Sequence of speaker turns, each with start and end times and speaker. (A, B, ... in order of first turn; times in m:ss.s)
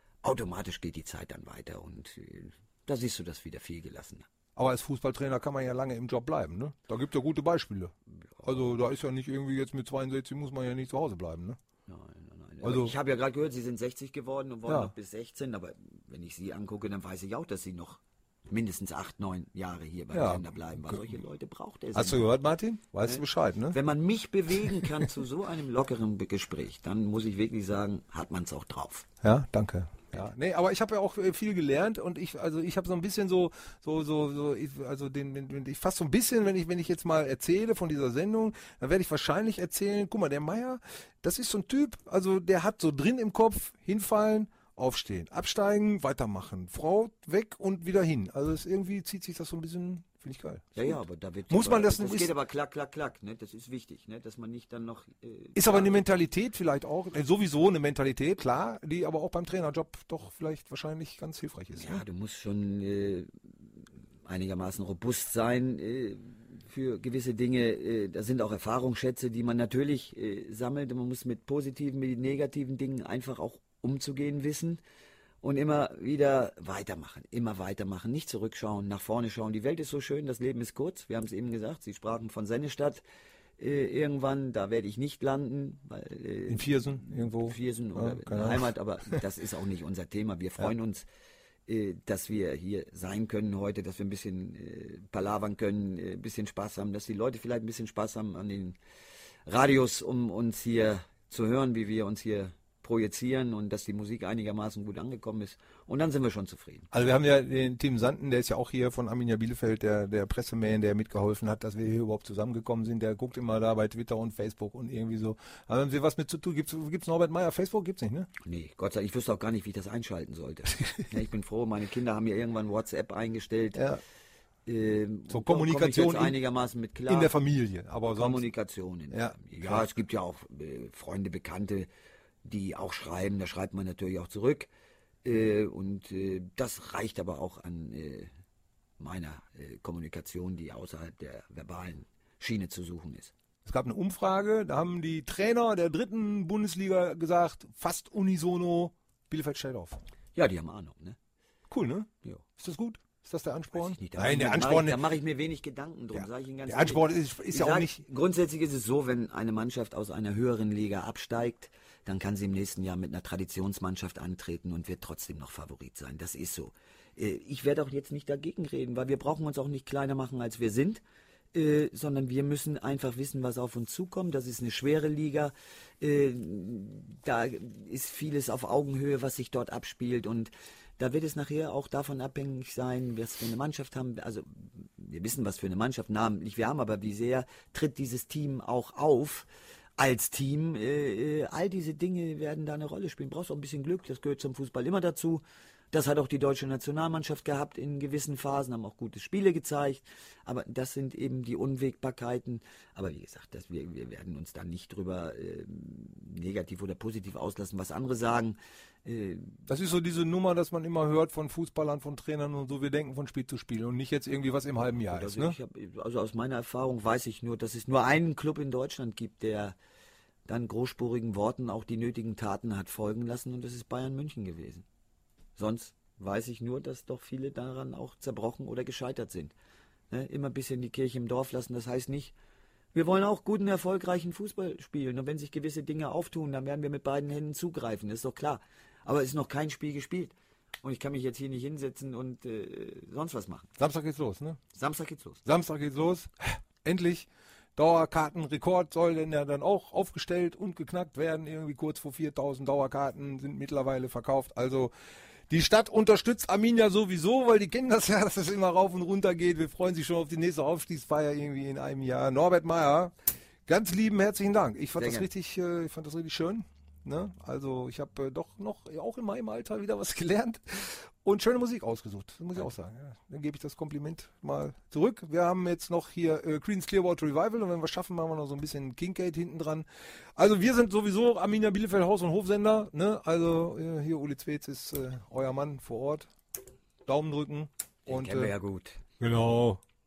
0:00.2-0:04.3 A
0:04.6-0:11.6 B
0:08.3-0:08.7 A
0:11.9-0:22.3 A
0:12.6-0:12.9 B
0:14.6-0:14.9 B
0:20.1-0:21.2 B
0:21.9-0:23.8 B
0:23.0-0:29.1 A
0:29.2-0:52.3 B
0:50.8-0:56.0 A
0:55.5-1:02.0 B
1:01.7-1:03.3 A
1:04.2-1:14.8 A
1:15.4-1:23.0 A
1:23.6-1:31.0 A
1:26.5-1:29.2 B
1:31.7-1:38.8 A
1:39.4-1:46.9 A
1:46.9-1:58.3 B
1:58.4-2:03.8 A
2:03.7-2:04.0 B
2:04.6-2:07.3 A
2:05.3-2:06.4 B
2:07.1-2:08.5 B
2:08.1-2:11.9 A
2:09.1-2:09.9 B
2:12.4-2:14.7 A
2:15.2-2:18.3 A
2:19.0-2:23.3 A
2:23.6-2:30.0 B
2:30.3-2:31.2 A
2:31.7-2:35.1 B
2:33.8-2:51.0 A
2:36.1-2:38.0 B
2:51.5-3:29.6 A
3:29.7-3:35.6 B
3:35.0-3:39.8 A
3:40.5-3:44.8 A
3:45.6-3:49.5 A
3:50.1-3:52.3 A
3:52.9-4:03.7 A
4:03.8-4:04.6 B
4:04.7-4:05.4 A
4:05.4-4:14.9 B
4:15.5-4:23.1 B
4:23.6-4:46.3 B
4:25.0-4:25.3 A
4:47.0-4:48.5 B
4:48.0-4:49.0 A
4:49.2-4:49.8 B